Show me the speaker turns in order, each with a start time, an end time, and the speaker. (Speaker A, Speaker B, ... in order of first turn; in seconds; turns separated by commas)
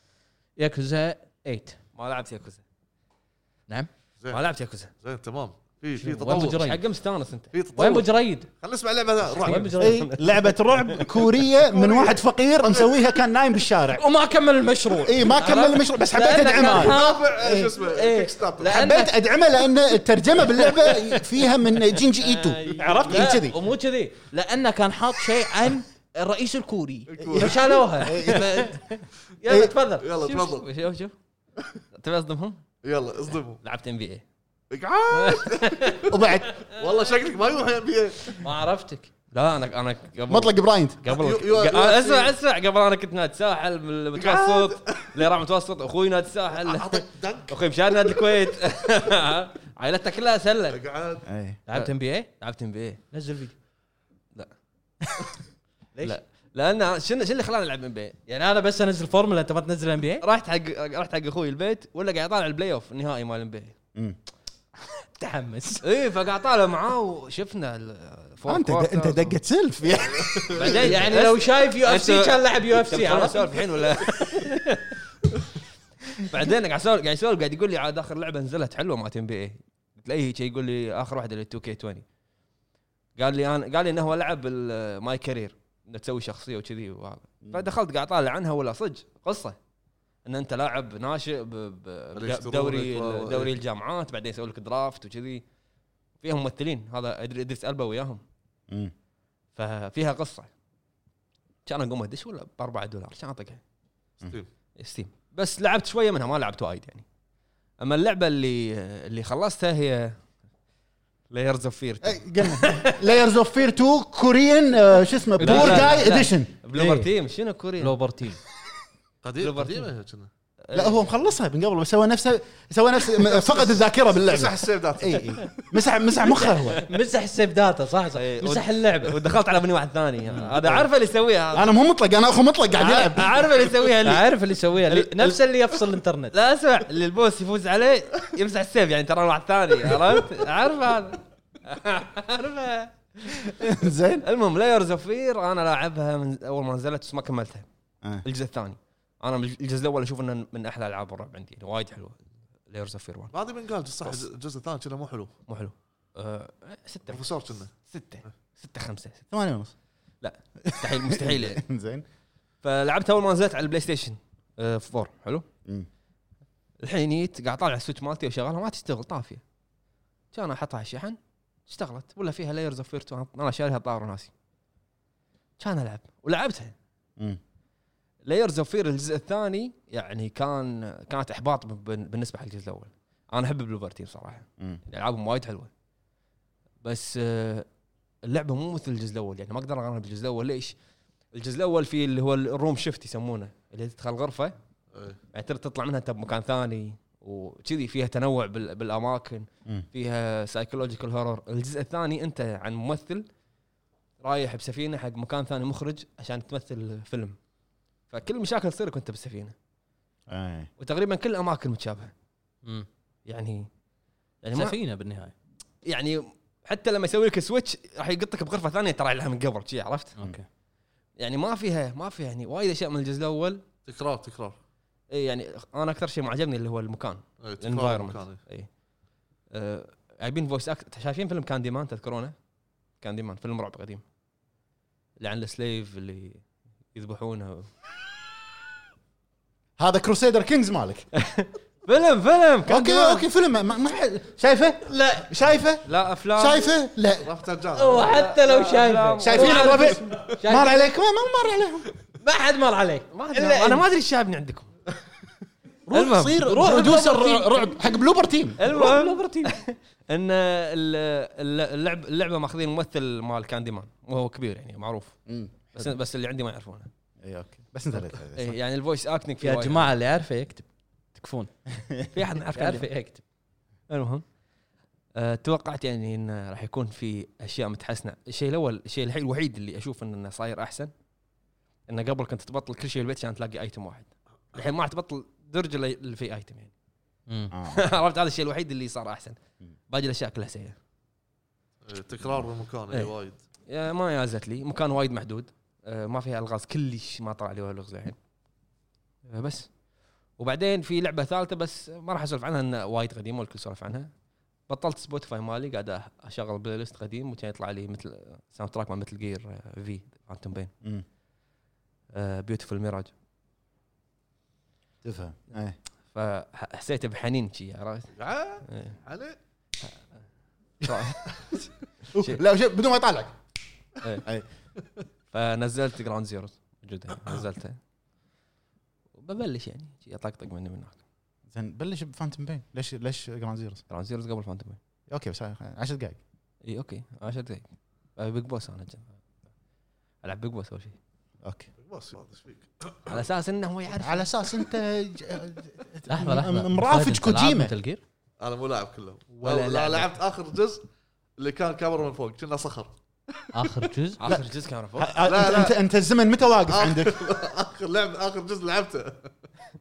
Speaker A: 0.6-1.8, Speaker B: 1.9-2.6, Speaker B: 4.3-4.9, Speaker C: 5.0-6.7, Speaker A: 6.0-6.8, Speaker B: 6.2-7.5, Speaker C: 7.5-9.7, Speaker A: 7.7-8.5, Speaker B: 9.3-11.3, Speaker A: 9.4-10.1, Speaker D: 9.8-14.0, Speaker C: 11.7-13.0, Speaker A: 13.9-19.1, Speaker D: 15.0-17.7, Speaker C: 16.5-18.8, Speaker D: 18.6-23.6, Speaker B: 22.1-23.2, Speaker A: 22.9-30.1, Speaker C: 27.1-27.6, Speaker D: 27.2-29.7, Speaker C: 30.0-30.7, Speaker B: 30.2-31.1, Speaker B: 31.9-32.6, Speaker C: 32.8-33.6, Speaker B: 33.6-34.2, Speaker C: 34.7-38.4, Speaker B: 35.1-36.1, Speaker D: 36.1-36.6, Speaker A: 38.4-39.1, Speaker B: 39.3-50.8, Speaker D: 40.3-41.0, Speaker C: 41.0-42.3, Speaker C: 44.1-45.2, Speaker C: 46.6-47.5, Speaker C: 50.7-51.3, Speaker D: 51.2-51.6, Speaker A: 51.7-52.3, Speaker B: 51.7-53.0, Speaker A: 53.1-53.5, Speaker A: 55.9-56.2, Speaker B: 56.0-58.2, Speaker A: 58.3-60.2, Speaker B: 60.2-63.7, Speaker A: 65.2-65.8, Speaker B: 65.8-69.3, Speaker D: 68.4-70.8, Speaker C: 70.2-70.9, Speaker B: 70.5-75.0, Speaker A: 70.6-73.4, Speaker B: 76.1-82.0, Speaker B: 83.2-89.5, Speaker D: 87.4-87.7, Speaker B: 90.2-95.4, Speaker C: 92.2-93.5, Speaker B: 96.2-98.2, Speaker B: 99.5-100.5, Speaker B: 101.7-103.6, Speaker B: 104.8-107.0, Speaker B: 107.8-110.2, Speaker B: 111.3-113.1, Speaker D: 112.0-116.5, Speaker A: 115.4-116.2, Speaker B: 115.4-118.0, Speaker A: 116.7-117.1, Speaker A: 117.8-118.4, Speaker C: 119.2-120.3, Speaker B: 119.4-119.9, Speaker B: 120.6-121.1, Speaker D: 120.7-126.8, Speaker C: 123.2-125.6, Speaker B: 126.5-126.8, Speaker A: 126.7-129.2, Speaker B: 128.1-131.7, Speaker D: 131.5-133.4, Speaker B: 132.7-134.2, Speaker A: 134.0-136.3, Speaker B: 134.9-135.4, Speaker B: 136.3-147.7, Speaker D: 143.6-144.2, Speaker B: 148.2-153.3, Speaker C: 153.3-155.3, Speaker B: 155.5-157.3, Speaker C: 157.1-157.7, Speaker B: 157.8-159.2, Speaker D: 159.3-159.7, Speaker B: 160.2-161.6, Speaker D: 160.6-162.0, Speaker B: 162.6-165.4, Speaker B: 166.8-169.4, Speaker B: 170.3-174.3, Speaker B: 175.6-176.7, Speaker B: 178.2-185.7, Speaker B: 186.8-187.7, Speaker B: 188.2-190.7, Speaker B: 191.3-194.5, Speaker B: 195.3-203.2, Speaker B: 204.2-207.3, Speaker B: 208.1-209.5, Speaker D: 210.3-210.7, Speaker B: 210.8-212.1, Speaker B: 213.2-213.7, Speaker B: 214.4-214.8, Speaker A: 214.5-215.3, Speaker B: 215.8-220.1, Speaker A: 220.2-220.4, Speaker B: 221.2-223.6, Speaker C: 223.8-224.6, Speaker B: 225.1-228.7, Speaker C: 227.4-228.4, Speaker B: 229.5-232.3, Speaker B: 233.0-234.0, Speaker B: 235.2-236.4, Speaker B: 236.9-237.7, Speaker D: 239.8-241.1, Speaker B: 241.1-243.2, Speaker D: 242.7-247.3, Speaker A: 244.9-245.3, Speaker B: 245.8-246.7, Speaker C: 247.2-248.2, Speaker A: 247.7-250.8, Speaker B: 247.9-250.0, Speaker D: 249.2-251.9, Speaker A: 252.2-253.8, Speaker B: 253.1-254.7, Speaker D: 255.9-258.6, Speaker B: 255.9-256.4, Speaker A: 256.3-257.7, Speaker B: 258.6-265.2, Speaker A: 258.6-259.5, Speaker D: 265.3-265.5, Speaker B: 265.7-266.9, Speaker D: 267.2-268.5, Speaker B: 268.3-269.9, Speaker A: 269.4-271.5, Speaker B: 272.1-272.9, Speaker A: 272.5-273.2, Speaker B: 273.9-274.2, Speaker B: 275.1-280.9, Speaker B: 281.9-286.7, Speaker A: 287.3-287.5, Speaker D: 287.5-287.8, Speaker B: 287.7-289.4, Speaker B: 289.9-290.8, Speaker C: 291.8-293.4, Speaker B: 293.7-298.1, Speaker B: 299.3-299.7, Speaker B: 300.4-304.1, Speaker B: 304.7-310.7, Speaker B: 312.1-313.1, Speaker D: 315.0-315.8, Speaker B: 316.1-318.1, Speaker C: 318.1-319.4, Speaker B: 318.7-319.0, Speaker D: 320.8-321.1, Speaker B: 320.8-321.6, Speaker D: 322.1-323.3, Speaker B: 322.1-322.4, Speaker B: 325.3-327.8, Speaker B: 329.2-331.0, Speaker D: 331.5-333.8, Speaker B: 333.9-334.8, Speaker D: 335.1-336.2, Speaker B: 336.6-339.1, Speaker B: 340.2-341.0, Speaker D: 341.4-341.7, Speaker C: 341.8-343.2, Speaker B: 343.1-344.3, Speaker D: 344.0-347.7, Speaker A: 346.1-348.0, Speaker C: 348.4-350.8, Speaker B: 349.3-350.1, Speaker C: 351.4-352.9, Speaker A: 353.5-354.2, Speaker B: 354.2-355.1, Speaker D: 355.0-357.2, Speaker C: 355.2-355.7, Speaker C: 356.7-359.3